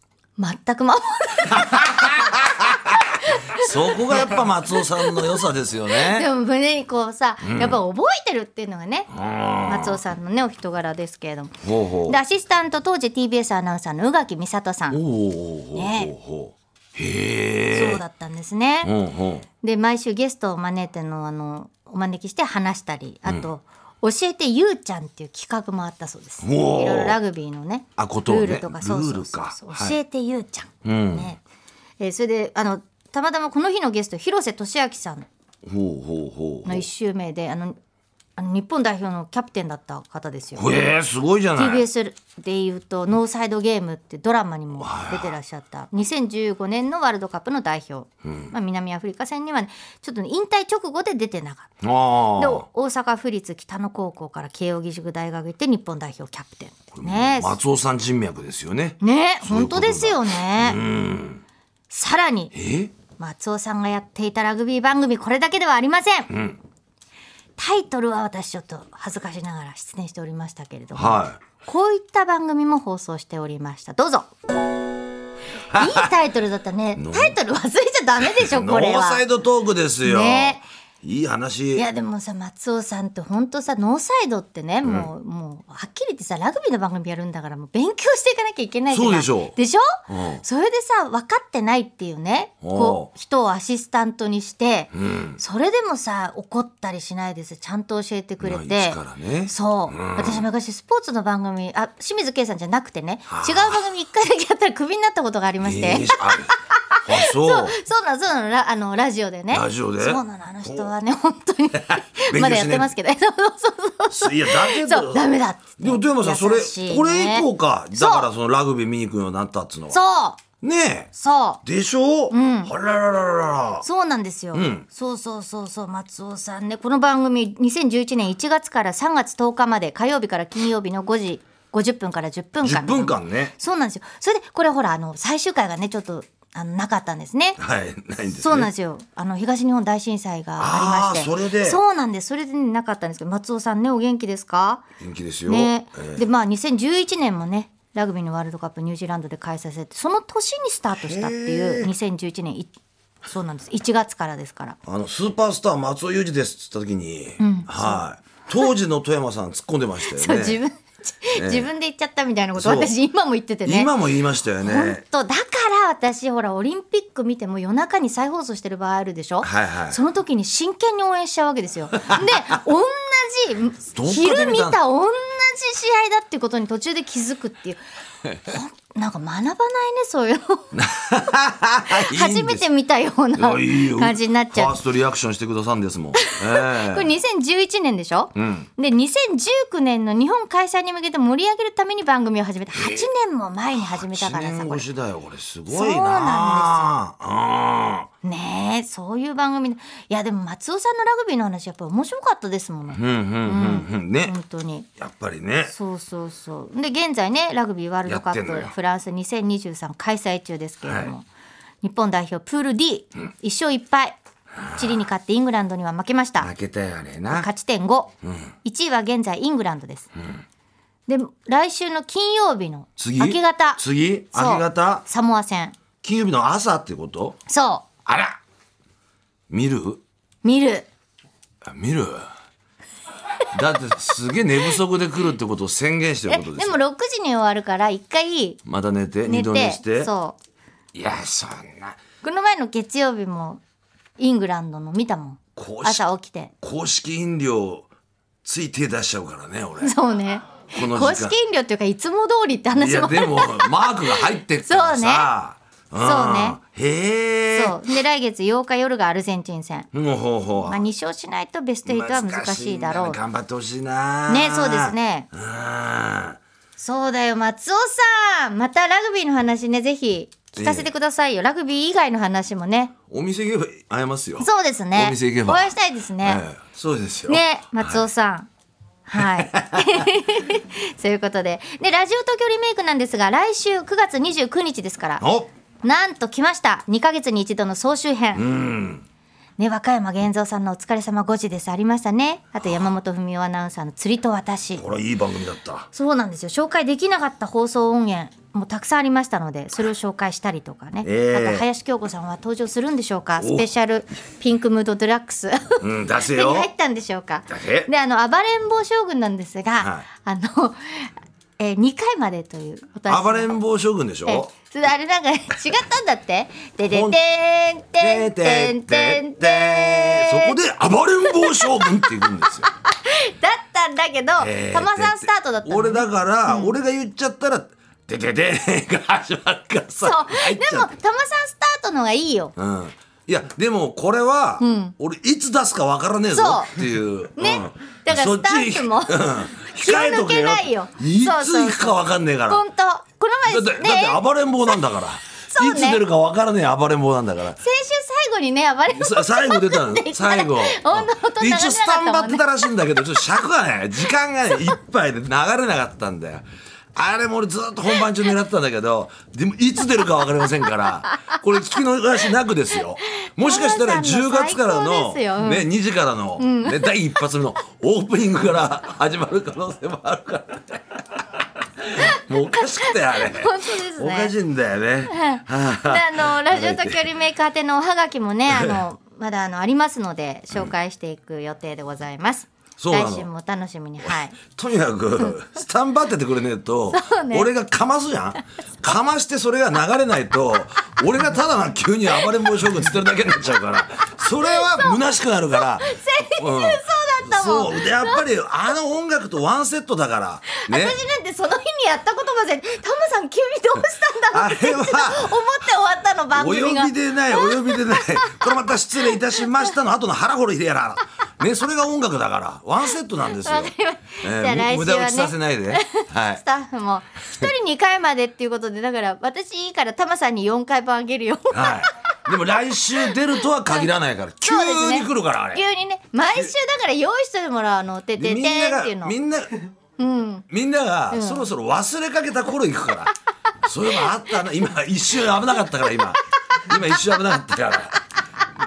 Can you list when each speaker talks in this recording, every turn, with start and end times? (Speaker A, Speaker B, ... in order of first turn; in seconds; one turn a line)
Speaker A: 0.4-9.1
Speaker B: 1.5-2.3
Speaker B: 3.5-6.3
Speaker B: 7.4-7.8
Speaker B: 9.1-10.0
Speaker A: 9.7-15.0
Speaker B: 11.6-12.2
Speaker B: 14.9-18.0
Speaker A: 15.7-16.1
Speaker A: 17.7-18.9
Speaker B: 18.8-19.4
Speaker A: 19.6-31.4
Speaker B: 26.4-27.2
Speaker B: 28.0-30.0
Speaker B: 30.8-31.3
Speaker A: 32.0-35.3
Speaker B: 35.6-36.9
Speaker A: 36.6-37.8
Speaker A: 38.4-40.7
Speaker B: 40.5-41.9
Speaker A: 41.5-51.7
Speaker B: 44.8-45.4
Speaker B: 48.2-48.5
Speaker B: 51.8-52.6
Speaker A: 52.3-57.6
Speaker B: 56.9-61.4
Speaker A: 59.0-60.8
Speaker A: 61.9-62.5
Speaker B: 62.5-62.9
Speaker A: 63.2-66.3
Speaker B: 66.3-66.6
Speaker A: 67.6-74.3
Speaker B: 70.9-71.4
Speaker B: 75.7-76.1
Speaker A: 75.7-79.2
Speaker B: 77.0-77.4
Speaker B: 78.2-81.8
Speaker A: 80.0-80.7
Speaker A: 81.7-118.3
Speaker B: 84.8-85.1
Speaker B: 88.9-89.5
Speaker B: 90.1-90.4
Speaker B: 92.6-93.1
Speaker B: 94.9-95.4
Speaker B: 98.4-100.5
Speaker B: 103.3-103.8
Speaker B: 105.6-107.8
Speaker B: 109.5-110.9
Speaker B: 112.0-112.9
Speaker B: 114.1-120.0
Speaker A: 119.9-120.4
Speaker B: 120.6-121.1
Speaker A: 121.1-121.6
Speaker B: 121.6-123.8
Speaker A: 122.3-122.7
Speaker A: 123.8-137.6
Speaker B: 124.5-124.8
Speaker B: 132.6-133.5
Speaker B: 137.6-138.7
Speaker A: 138.3-144.8
Speaker B: 140.6-141.8
Speaker B: 145.0-146.2
Speaker A: 145.5-152.7
Speaker B: 150.9-151.9
Speaker A: 153.2-154.8
Speaker B: 154.8-160.6
Speaker A: 157.4-158.0
Speaker A: 160.1-163.9
Speaker B: 161.3-161.7
Speaker B: 162.6-162.9
Speaker B: 163.6-165.0
Speaker A: 164.6-180.7
Speaker B: 169.4-170.0
Speaker B: 172.0-172.6
Speaker B: 173.9-174.8
Speaker B: 180.7-182.7
Speaker A: 181.9-184.8
Speaker B: 183.3-187.1
Speaker A: 186.2-194.9
Speaker B: 188.3-188.7
Speaker B: 192.7-193.1
Speaker B: 193.7-198.1
Speaker A: 195.7-196.9
Speaker A: 198.2-204.9
Speaker B: 202.9-204.3
Speaker B: 205.0-205.7
Speaker A: 205.7-211.3
Speaker B: 208.1-208.7
Speaker B: 210.8-211.1
Speaker A: 211.8-216.5
Speaker B: 216.4-217.5
Speaker A: 217.3-218.1
Speaker B: 218.2-218.5
Speaker A: 218.6-220.1
Speaker A: 221.1-223.8
Speaker B: 223.0-225.0
Speaker A: 224.3-225.8
Speaker B: 226.0-227.4
Speaker A: 227.5-227.8
Speaker B: 228.1-228.4
Speaker B: 229.5-230.0
Speaker A: 230.4-230.9
Speaker B: 231.6-232.3
Speaker B: 233.5-236.8
Speaker A: 236.3-238.6
Speaker B: 238.7-240.1
Speaker A: 239.2-240.4
Speaker B: 240.9-242.0
Speaker A: 242.2-243.6
Speaker A: 244.2-246.5
Speaker B: 245.6-246.0
Speaker B: 246.6-247.9
Speaker B: 248.4-250.0
Speaker A: 249.8-255.3
Speaker B: 250.7-251.3
Speaker B: 252.7-257.8
Speaker A: 256.0-256.6
Speaker A: 257.5-259.9
Speaker B: 259.9-260.8
Speaker A: 260.6-263.2
Speaker B: 261.9-266.4
Speaker A: 264.3-265.3
Speaker A: 266.8-272.9
Speaker B: 270.6-270.9
Speaker B: 273.1-278.0
Speaker A: 274.4-276.4
Speaker A: 277.3-278.5
Speaker A: 279.1-285.2
Speaker B: 279.2-280.0
Speaker B: 285.2-285.5
Speaker A: 285.8-288.4
Speaker B: 288.3-289.0
Speaker A: 289.6-294.8
Speaker B: 294.8-295.9
Speaker A: 295.9-313.6
Speaker B: 301.0-301.6
Speaker B: 303.4-303.7
Speaker B: 305.8-306.7
Speaker B: 307.5-307.9
Speaker B: 309.8-310.1
Speaker B: 313.1-314.5
Speaker A: 314.2-320.6
Speaker B: 316.9-317.2
Speaker B: 318.0-322.7
Speaker A: 321.3-326.8
Speaker B: 324.4-330.9
Speaker A: 330.0-332.5
Speaker B: 332.6-342.6
Speaker A: 334.6-334.9
Speaker A: 336.3-336.8
Speaker A: 337.4-344.8
Speaker B: 343.4-347.6
Speaker A: 345.4-346.0
Speaker A: 347.6-353.2
Speaker B: 348.9-377.1
Speaker A: 363.2-365.7
Speaker A: 366.4-367.2
Speaker A: 371.9-374.3
Speaker A: 375.1-384.4
Speaker B: 378.5-378.8
Speaker B: 382.8-383.3
Speaker B: 384.0-401.0
Speaker A: 386.9-387.5
Speaker A: 394.2-395.0
Speaker A: 395.5-398.2
Speaker A: 400.5-409.7
Speaker B: 404.3-405.4
Speaker B: 406.3-416.4
Speaker A: 413.2-422.1
Speaker B: 421.5-425.6
Speaker A: 424.4-429.1
Speaker B: 428.1-429.6
Speaker A: 430.0-430.5
Speaker B: 430.5-433.1
Speaker A: 431.1-431.5
Speaker B: 433.6-438.0
Speaker A: 436.5-437.2